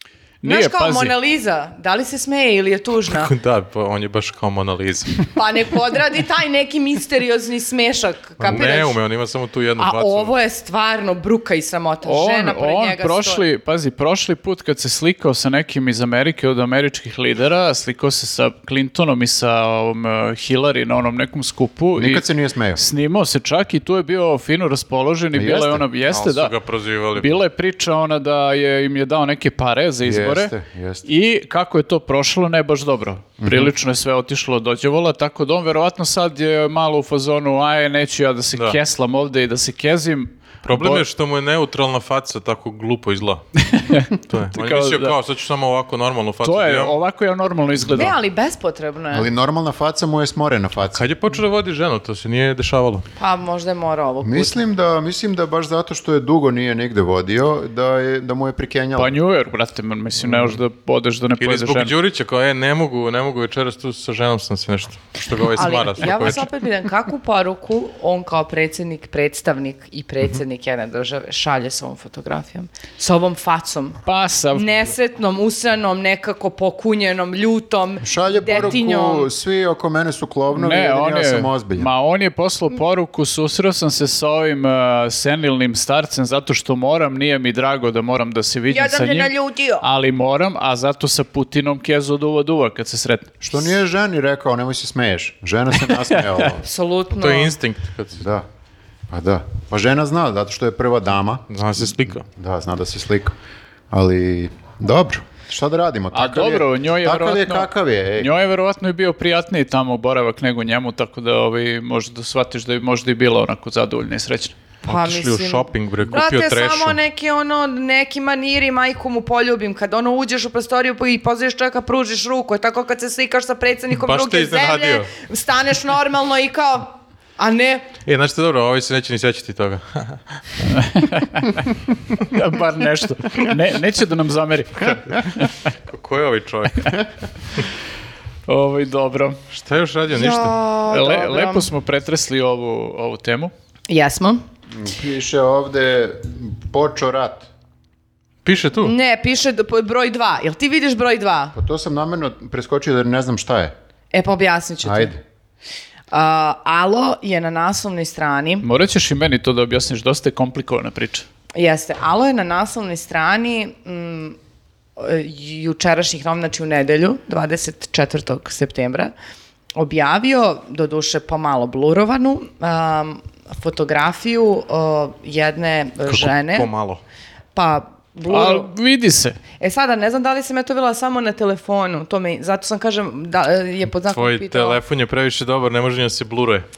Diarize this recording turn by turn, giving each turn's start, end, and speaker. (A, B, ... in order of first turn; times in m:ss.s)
0:00.4-0:01.2 A
0:00.4-0:03.3 B
0:03.1-0:05.3 C
0:05.3-0:09.0 B
0:08.4-0:10.3 C
0:09.8-0:13.4 B
0:12.0-0:26.5 A
0:22.0-0:22.8 D
0:25.3-0:25.8 D
0:26.1-0:27.4 C
0:27.2-0:30.5 A
0:30.0-0:31.0 D
0:31.0-0:41.0 A
0:33.4-0:33.7 D
0:40.6-0:43.4 C
0:43.6-0:45.2 A
0:44.2-0:47.0 C
0:46.4-0:48.1 A
0:47.9-0:49.3 B
0:49.1-0:51.0 D
0:50.9-0:53.0 C
0:53.2-0:54.5 B
0:54.2-0:59.2 D
0:59.0-1:01.9 A
1:00.2-1:00.6 C
1:01.4-1:06.5 C
1:05.6-1:14.0 B
1:14.0-1:14.7 A
1:14.5-1:19.3 B
1:18.0-1:21.9 D
1:20.5-1:33.3 A
1:28.7-1:29.8 B
1:33.4-1:36.7 D
1:36.6-1:37.5 B
1:37.1-1:38.2 C
1:38.2-1:38.4 D
1:39.1-1:43.3 D
1:41.5-1:42.2 C
1:43.9-1:48.3 D
1:46.1-1:54.5 A
1:54.8-1:57.0 C
1:54.8-2:07.9 B
2:03.9-2:05.1 C
2:08.0-2:10.4 C
2:10.6-2:11.6 A
2:12.2-2:15.5 A
2:14.8-2:15.2 C
2:15.9-2:17.0 C
2:18.5-2:19.4 A
2:19.5-2:20.6 C
2:20.1-2:21.7 B
2:20.9-2:23.5 A
2:23.9-2:24.4 B
2:24.7-2:27.5 D
2:28.4-2:28.9 C
2:28.8-2:31.5 B
2:31.5-2:33.7 D
2:34.1-2:35.1 B
2:34.8-2:35.2 D
2:36.1-2:38.6 B
2:38.6-2:41.2 A
2:41.5-2:44.4 B
2:45.0-2:49.1 B
2:49.8-2:56.7 B
2:56.1-2:57.0 C
2:57.5-2:58.7 B
2:58.3-2:59.4 A
2:59.6-3:04.8 B
3:04.0-3:06.6 C